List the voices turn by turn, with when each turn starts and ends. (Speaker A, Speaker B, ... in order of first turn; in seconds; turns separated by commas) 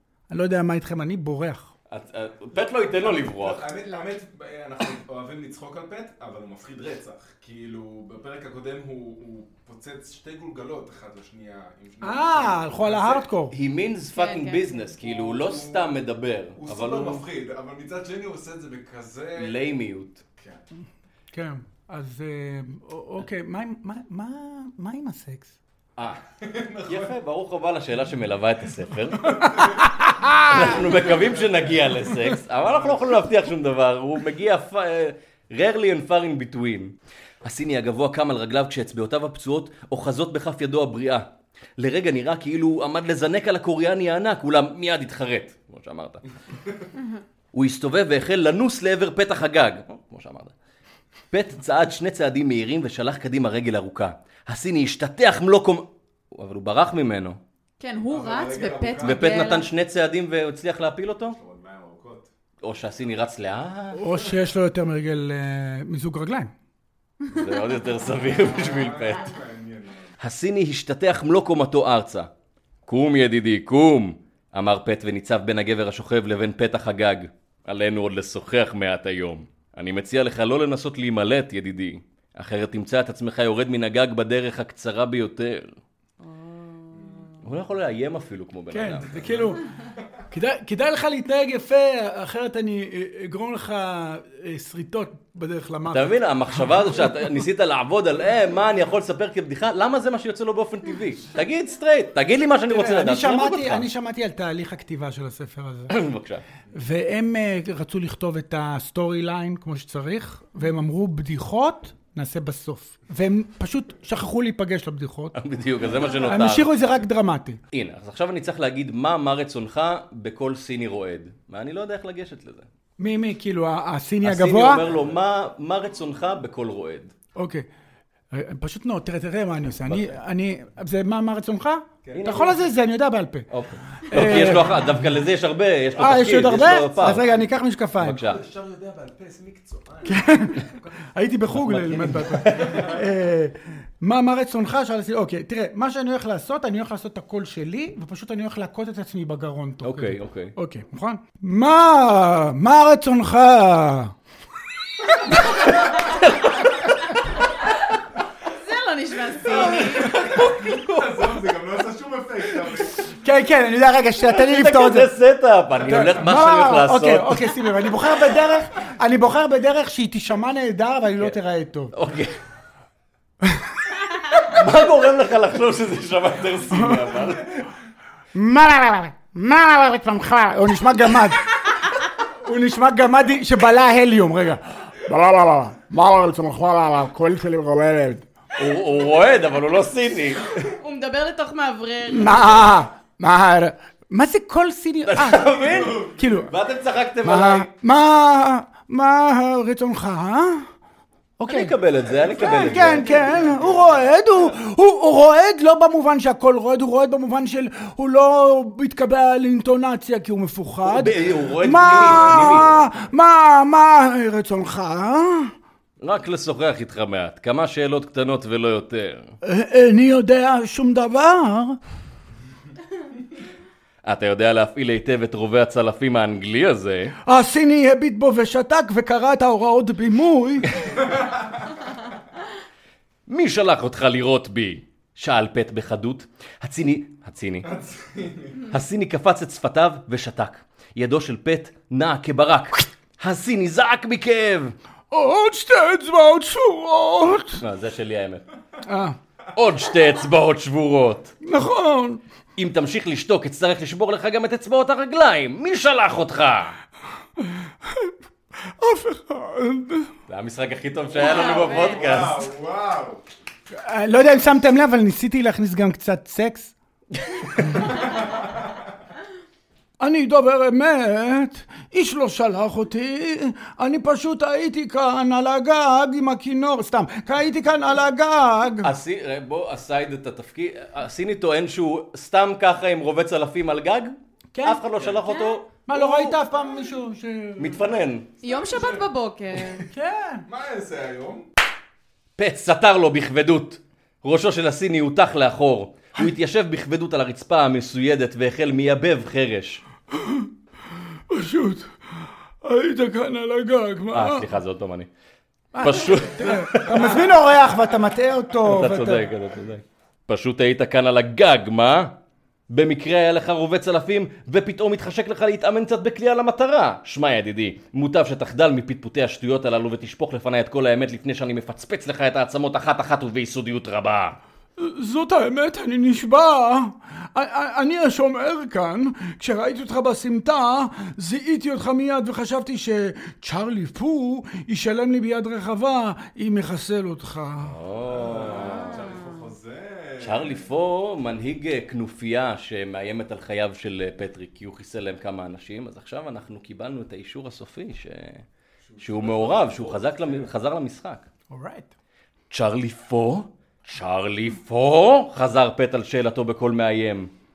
Speaker A: 0.3-1.7, Speaker B: 1.9-3.7, Speaker C: 2.7-13.3, Speaker A: 12.0-13.6, Speaker B: 13.5-17.2, Speaker D: 14.2-14.8, Speaker C: 15.0-15.9, Speaker C: 16.6-19.6, Speaker B: 19.4-20.2, Speaker C: 20.4-20.6, Speaker A: 21.3-25.6, Speaker B: 26.0-26.2, Speaker C: 26.4-27.2, Speaker B: 26.9-29.4, Speaker A: 29.2-30.8, Speaker C: 29.3-29.8, Speaker B: 30.4-41.2, Speaker C: 30.5-32.0, Speaker C: 32.6-33.0, Speaker B: 41.8-46.2, Speaker B: 47.5-50.5, Speaker B: 51.3-57.4, Speaker D: 57.8-59.7, Speaker C: 58.1-59.5, Speaker B: 59.0-61.4, Speaker C: 61.3-62.3, Speaker B: 62.6-64.0, Speaker A: 63.9-66.5, Speaker B: 67.3-69.3, Speaker C: 68.2-70.2, Speaker B: 70.2-72.3, Speaker B: 72.9-85.8, Speaker D: 86.2-87.3, Speaker C: 86.9-87.4, Speaker B: 87.4-89.5, Speaker A: 88.7-89.6, Speaker A: 90.3-96.2, Speaker B: 95.9-103.9, Speaker A: 102.7-106.0, Speaker B: 105.9-106.4, Speaker A: 106.7-115.3, Speaker B: 115.3-116.7, Speaker A: 116.2-117.6, Speaker B: 117.7-122.7, Speaker A: 123.0-124.8, Speaker B: 124.2-127.1, Speaker C: 124.8-125.2, Speaker A: 127.4-127.7, Speaker A: 128.3-133.5, Speaker C: 132.0-132.6, Speaker B: 132.1-132.6, Speaker B: 133.5-137.3, Speaker A: 134.0-134.9, Speaker A: 136.0-138.2, Speaker B: 138.0-138.4, Speaker C: 138.2-141.1, Speaker A: 140.1-140.6, Speaker A: 141.1-154.1, Speaker B: 141.5-142.9, Speaker C: 142.5-143.0, Speaker B: 149.8-150.5, Speaker B: 156.1-156.5, Speaker D: 158.5-160.3, Speaker C: 159.4-163.0, Speaker B: 159.5-161.2, Speaker A: 163.1-165.1, Speaker B: 164.3-167.5, Speaker A: 165.9-171.9, Speaker B: 171.9-172.4, Speaker B: 174.4-177.7, Speaker A: 176.7-177.0, Speaker A: 178.3-181.5, Speaker A: 182.3-188.3, Speaker B: 188.6-190.5, Speaker D: 190.6-192.6, Speaker A: 192.1-196.5, Speaker B: 195.1-197.7, Speaker C: 195.5-196.5, Speaker A: 197.2-200.7, Speaker A: 201.4-201.7, Speaker B: 201.5-203.6, Speaker C: 202.0-204.1, Speaker A: 202.3-215.5, Speaker B: 210.8-212.9, Speaker C: 212.2-212.9, Speaker B: 216.0-219.3, Speaker A: 219.4-221.8, Speaker B: 224.0-227.2, Speaker A: 227.2-230.8, Speaker B: 233.3-237.7, Speaker C: 237.6-238.7, Speaker B: 238.7-244.8, Speaker A: 245.1-247.6, Speaker B: 247.6-248.4, Speaker A: 248.8-249.2, Speaker B: 249.6-251.3, Speaker A: 251.4-252.2, Speaker B: 252.6-256.8, Speaker A: 257.4-260.1, Speaker B: 260.3-262.4, Speaker D: 261.1-262.0, Speaker C: 261.3-263.2, Speaker A: 263.7-266.7, Speaker B: 267.3-267.8, Speaker C: 268.4-268.8, Speaker A: 270.0-278.9, Speaker B: 278.8-286.4, Speaker A: 284.5-284.8, Speaker C: 285.0-285.2, Speaker D: 285.3-285.6, Speaker A: 285.9-287.8, Speaker B: 287.6-288.3, Speaker D: 288.4-289.9, Speaker C: 288.4-289.1, Speaker A: 289.9-290.5, Speaker C: 290.5-291.5, Speaker B: 292.4-299.8, Speaker A: 300.1-300.5, Speaker A: 301.3-304.5, Speaker B: 304.1-305.1, Speaker A: 305.7-309.3, Speaker B: 305.8-307.4, Speaker B: 308.6-312.1, Speaker B: 312.7-324.4, Speaker A: 324.8-337.8, Speaker B: 337.6-339.1, Speaker C: 338.1-340.7, Speaker D: 338.5-339.5, Speaker B: 340.2-348.4, Speaker C: 348.9-350.5, Speaker B: 349.0-351.3, Speaker A: 351.5-351.9, Speaker B: 352.5-357.3